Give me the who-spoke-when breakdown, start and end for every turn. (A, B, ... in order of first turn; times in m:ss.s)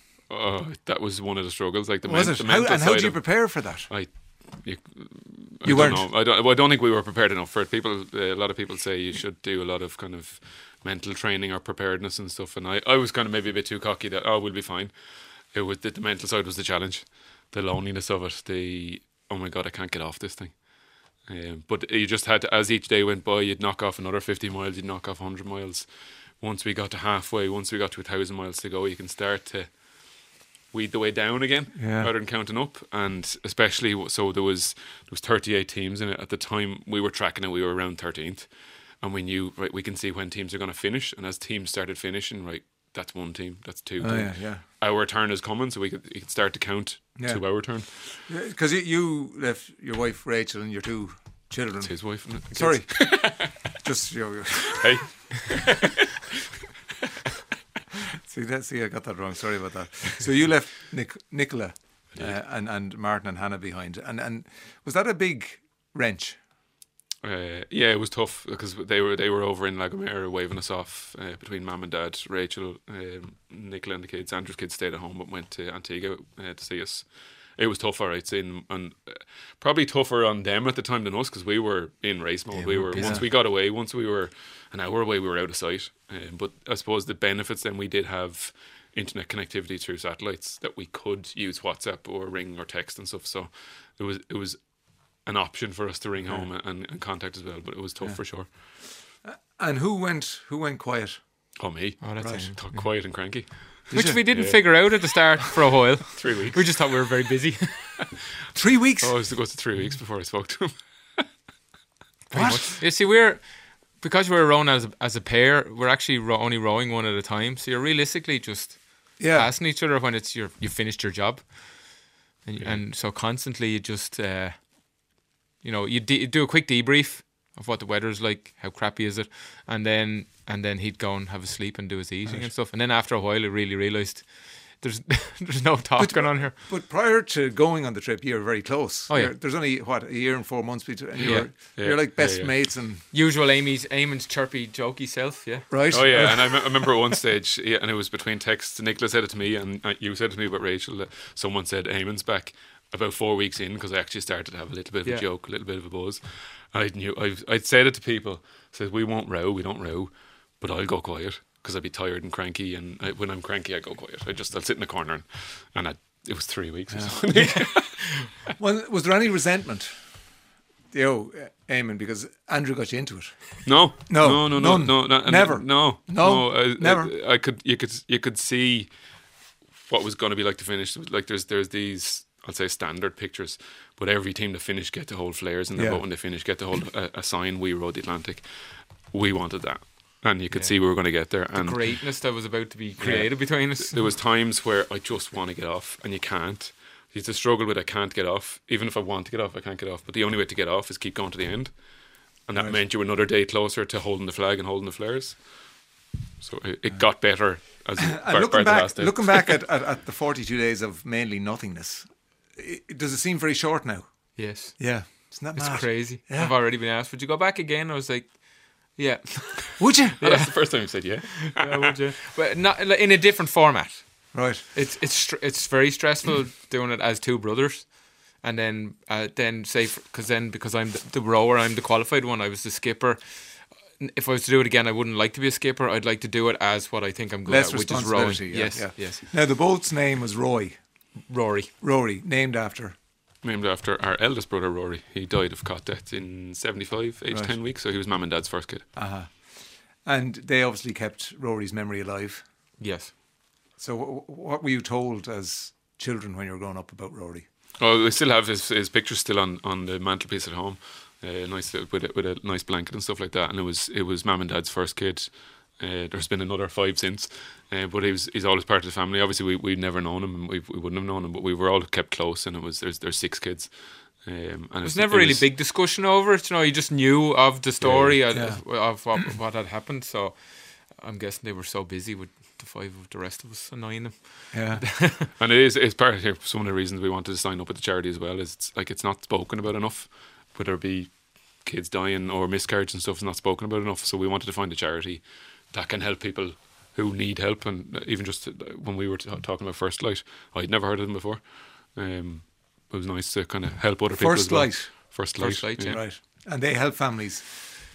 0:00.3-0:14.9 A
0:02.0-0:03.9 B
0:05.6-0:06.0 B
0:15.5-0:20.7 A
0:21.2-0:25.9 A
0:26.4-0:29.7 A
0:30.7-0:38.5 A
0:31.8-0:32.1 B
0:39.0-0:48.2 A
0:44.0-0:44.6 B
0:47.2-0:47.6 B
0:48.2-0:54.9 B
0:51.8-0:53.5 A
0:54.8-0:55.9 A
0:58.2-1:06.4 B
1:07.2-1:17.0 A
1:17.6-1:34.6 A
1:22.7-1:23.2 C
1:22.8-1:23.2 B
1:35.2-1:38.5 A
1:38.0-1:38.5 B
1:39.2-1:41.2 B
1:41.6-1:45.2 A
1:42.0-1:42.9 C
1:42.2-1:42.4 B
1:43.9-1:44.8 B
1:43.9-1:48.1 C
1:46.2-1:46.8 A
1:48.5-1:49.1 B
1:49.0-1:51.2 A
1:52.3-1:52.8 B
1:52.3-2:16.6 C
1:59.2-1:59.5 B
2:16.0-2:23.0 B
2:19.1-2:19.3 C
2:21.2-2:22.5 A
2:21.2-2:21.5 C
2:23.1-2:26.1 C
2:25.7-2:26.6 B
2:25.9-2:36.2 A
2:36.7-2:48.3 A
2:46.9-2:47.2 B
2:48.6-2:49.9 B
2:50.9-2:57.1 B
2:53.6-2:58.9 A
2:59.8-3:08.4 A
3:05.7-3:06.0 B
3:09.1-3:12.0 A
3:10.5-3:14.0 C
3:13.0-3:21.7 A
3:22.5-3:25.5 A
3:26.4-3:29.5 A
3:27.6-3:36.5 B
3:34.4-3:59.3 C
3:39.8-3:40.2 B
3:40.2-3:42.0 A
3:44.3-3:44.6 B
3:57.4-4:00.8 B
4:01.3-4:01.7 C
4:01.8-4:02.9 B
4:03.4-4:08.8 A
4:08.9-4:12.4 B
4:12.8-4:13.1 C
4:13.8-4:17.4 B
4:17.8-4:35.4 A
4:34.8-4:45.3 C
4:37.8-4:38.2 A
4:38.3-4:39.2 B
4:44.5-4:44.8 B
4:45.4-5:06.0 A
5:04.2-5:05.2 B
5:05.4-5:06.1 C
5:05.8-5:07.5 B